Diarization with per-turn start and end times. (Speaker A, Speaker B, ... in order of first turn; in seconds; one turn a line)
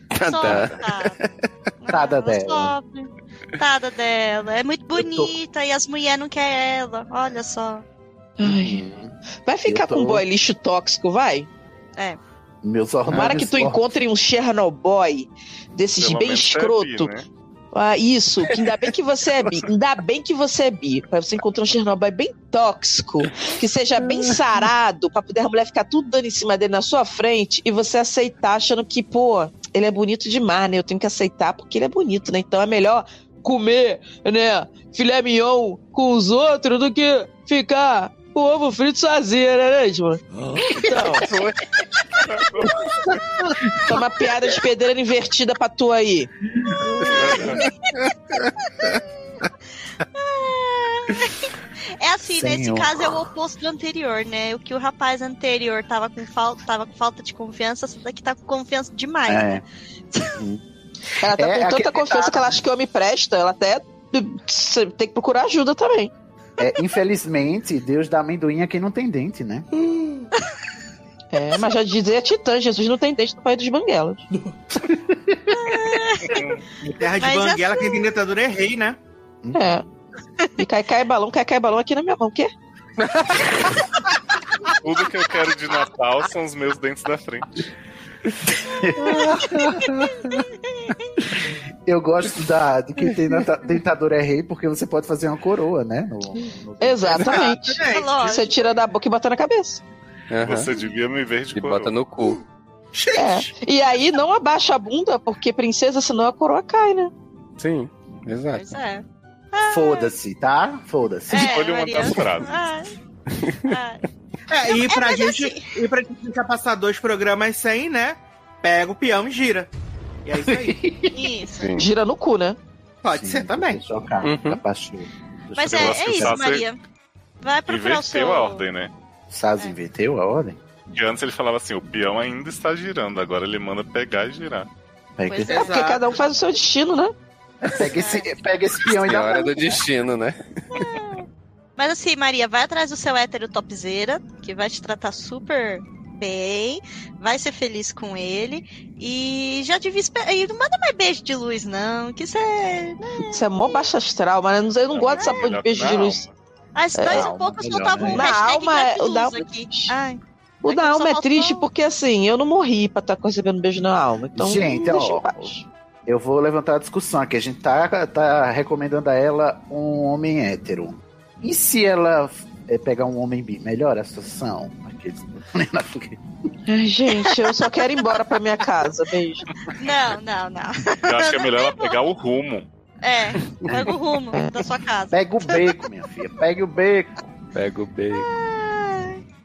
Speaker A: 0.1-1.3
Speaker B: 0.3-1.2
Speaker B: 1.8-7.8
Speaker C: 1.9-2.7
Speaker C: 5.0-5.3
Speaker D: 8.4-8.8
Speaker C: 8.4-9.2
Speaker D: 9.4-11.5
Speaker C: 9.7-10.2
Speaker C: 12.6-13.9
Speaker D: 13.1-17.1
Speaker E: 16.0-17.3
Speaker D: 17.7-40.2
Speaker D: 40.8-41.3
Speaker E: 42.4-42.8
Speaker D: 43.9-46.3
Speaker E: 47.1-47.6
Speaker C: 47.2-47.5
Speaker B: 50.2-51.4
Speaker B: 52.0-59.5
Speaker C: 52.2-53.3
Speaker C: 59.3-59.6
Speaker C: 60.4-60.6
Speaker D: 61.2-66.1
Speaker C: 61.3-62.6
Speaker C: 66.6-69.7
Speaker D: 71.3-74.2
Speaker C: 74.9-75.5
Speaker B: 75.5-76.4
Speaker E: 76.3-76.6
Speaker F: 76.8-79.0
Speaker B: 77.2-78.1
Speaker D: 79.5-79.8
Speaker D: 80.6-82.5
Speaker A: 83.0-83.7
Speaker E: 84.8-87.5
Speaker C: 88.5-90.4
Speaker C: 91.2-97.2
Speaker A: 93.2-93.4
Speaker D: 96.8-99.8
Speaker F: 97.2-98.2
Speaker B: 97.8-98.5
Speaker A: 100.3-100.7
Speaker E: 100.4-102.0
Speaker A: 101.5-102.4
Speaker F: 102.9-103.5
Speaker D: 103.2-107.1
Speaker A: 107.6-108.8
Speaker B: 108.5-110.2
Speaker C: 109.6-111.5
Speaker B: 111.3-112.9
Speaker E: 111.3-112.6
Speaker B: 113.7-114.0
Speaker F: 114.5-119.7
Speaker B: 114.7-115.8
Speaker F: 120.2-120.8
Speaker C: 120.5-121.2
Speaker B: 121.1-121.7
Speaker D: 121.8-122.6
Speaker F: 123.0-123.8
Speaker C: 123.1-126.4
Speaker A: 124.2-124.6
Speaker B: 125.6-126.8
Speaker E: 125.6-126.7
Speaker B: 127.4-128.7
Speaker E: 127.7-128.9
Speaker C: 129.3-130.6
Speaker E: 130.9-134.7
Speaker C: 135.2-135.5
Speaker B: 135.3-135.8
Speaker F: 135.4-136.2
Speaker D: 135.6-137.1
Speaker C: 137.6-139.8
Speaker B: 137.8-138.3
Speaker A: 139.0-140.4
Speaker B: 140.8-141.2
Speaker B: 141.8-153.8
Speaker D: 153.3-156.2
Speaker E: 154.9-156.3
Speaker B: 155.2-155.5
Speaker B: 156.8-161.7
Speaker D: 157.0-157.3
Speaker C: 157.1-158.3
Speaker D: 158.0-159.9
Speaker D: 160.6-165.7
Speaker C: 164.3-165.5
Speaker C: 166.1-176.2
Speaker D: 176.7-179.4
Speaker B: 179.8-182.0
Speaker E: 181.1-182.7
Speaker B: 183.0-185.6
Speaker A: 183.4-183.7
Speaker D: 184.3-184.7
Speaker C: 185.1-187.1
Speaker A: 187.5-188.3
Speaker B: 188.1-189.2